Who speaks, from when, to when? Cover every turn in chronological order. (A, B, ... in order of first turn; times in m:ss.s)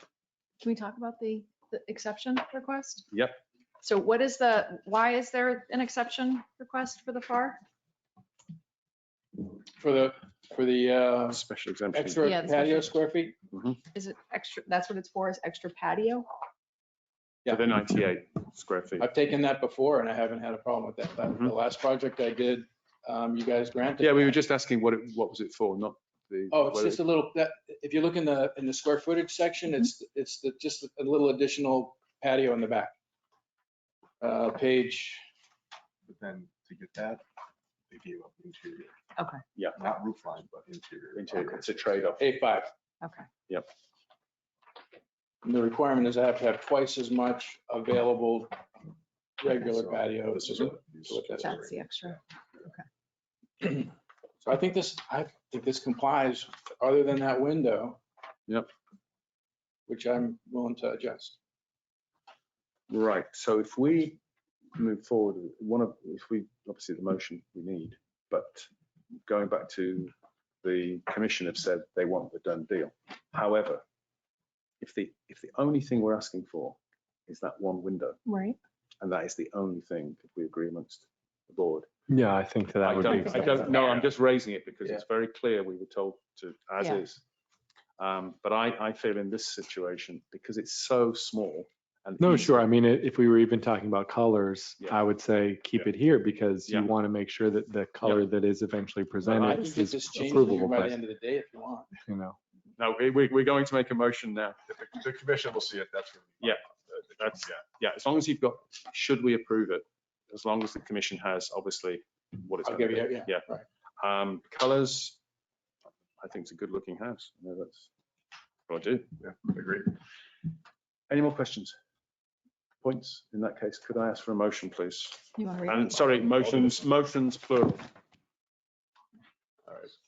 0:00.6-0:03.0 A
0:03.1-0:03.4 B
0:03.8-0:07.6 A
0:09.8-0:13.4 C
0:11.3-0:12.4 B
0:12.2-0:13.0 A
0:13.5-0:13.8 B
0:13.9-0:16.3 A
0:17.5-0:19.1 B
0:19.0-0:24.4 C
0:24.0-0:27.0 B
0:26.5-0:32.9 C
0:34.2-0:35.2 C
0:36.0-0:37.2 D
0:37.9-0:38.9 D
0:39.7-0:41.6 D
0:41.1-0:42.2 B
0:42.2-0:42.7 C
0:43.0-0:43.3 A
0:45.4-0:48.6 C
0:49.4-0:51.5 C
0:49.6-0:51.9 D
0:51.4-0:52.8 A
0:53.6-0:58.0 C
0:59.9-1:01.4 C
1:02.9-1:04.2 B
1:04.8-1:08.7 B
1:09.2-1:13.8 B
1:14.8-1:18.2 B
1:18.2-1:18.6 A
1:19.0-1:21.9 B
1:22.1-1:23.7 E
1:22.8-1:27.2 B
1:23.2-1:24.0 A
1:28.0-1:32.6 B
1:32.2-1:41.0 E
1:39.3-1:39.7 B
1:39.3-1:41.9 C
1:42.0-1:42.4 E
1:42.8-1:44.6 B
1:44.7-1:47.6 D
1:46.4-1:53.4 B
1:52.6-1:53.6 C
1:54.0-1:55.2 B
1:56.2-1:57.9 B
1:58.7-1:59.1 B
1:59.2-1:59.9 D
2:01.1-2:01.8 B
2:02.8-2:07.9 B
2:05.3-2:06.0 A
2:06.3-2:06.8 D